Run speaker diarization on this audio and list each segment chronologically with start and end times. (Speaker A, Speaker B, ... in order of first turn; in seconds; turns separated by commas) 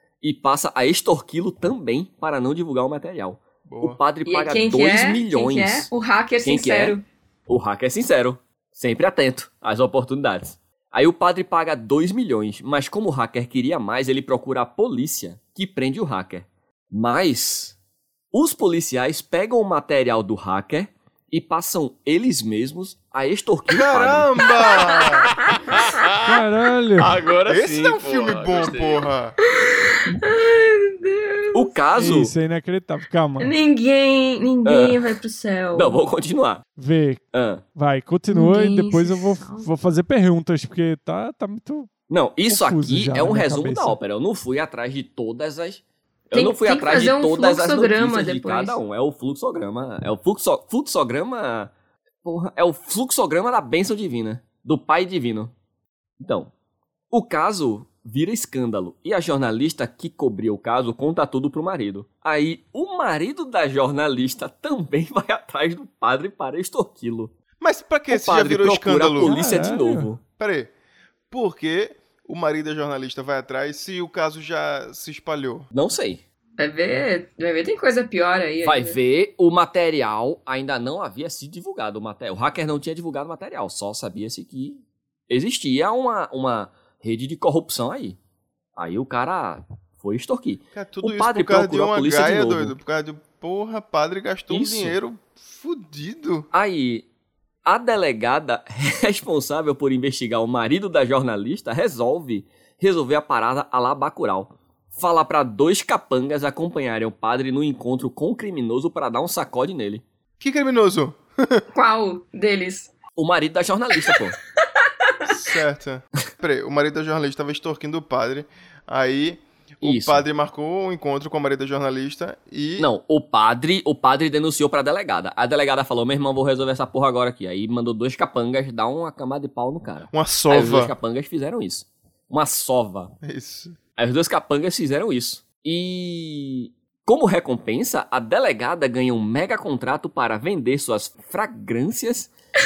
Speaker A: 0.2-5.9, Speaker B: 3.6-4.0, Speaker C: 4.2-7.0, Speaker A: 6.4-17.8, Speaker A: 18.3-24.5, Speaker B: 23.7-25.3, Speaker C: 24.5-25.0, Speaker D: 25.0-26.4, Speaker E: 26.2-27.2, Speaker D: 27.0-29.1, Speaker B: 27.4-29.4, Speaker C: 29.4-31.7, Speaker A: 31.5-32.3, Speaker E: 31.9-33.5, Speaker C: 33.4-36.0, Speaker A: 34.6-35.2, Speaker A: 35.7-36.6, Speaker E: 36.8-37.2, Speaker A: 37.3-37.6, Speaker E: 37.7-41.9, Speaker C: 38.3-39.7, Speaker A: 42.1-51.7, Speaker E: 42.5-44.0, Speaker C: 46.3-48.8, Speaker A: 52.2-55.5, Speaker A: 56.2-56.5, Speaker A: 57.1-67.3, Speaker B: 67.6-69.3, Speaker A: 68.1-70.2, Speaker E: 69.2-70.1, Speaker B: 70.4-70.7, Speaker B: 71.3-75.7, Speaker A: 75.7-76.2, Speaker C: 76.6-79.0, Speaker A: 78.6-88.2, Speaker A: 88.8-92.7, Speaker B: 90.7-96.5, Speaker A: 94.5-95.0, Speaker A: 96.5-97.1, Speaker A: 97.6-110.0, Speaker B: 110.4-111.6, Speaker C: 111.7-112.9, Speaker A: 113.1-114.4, Speaker C: 114.0-114.3, Speaker C: 115.0-115.3, Speaker B: 115.2-122.9, Speaker A: 119.8-120.2, Speaker A: 122.8-133.1, Speaker B: 130.1-130.9, Speaker B: 133.2-133.8, Speaker A: 134.0-142.3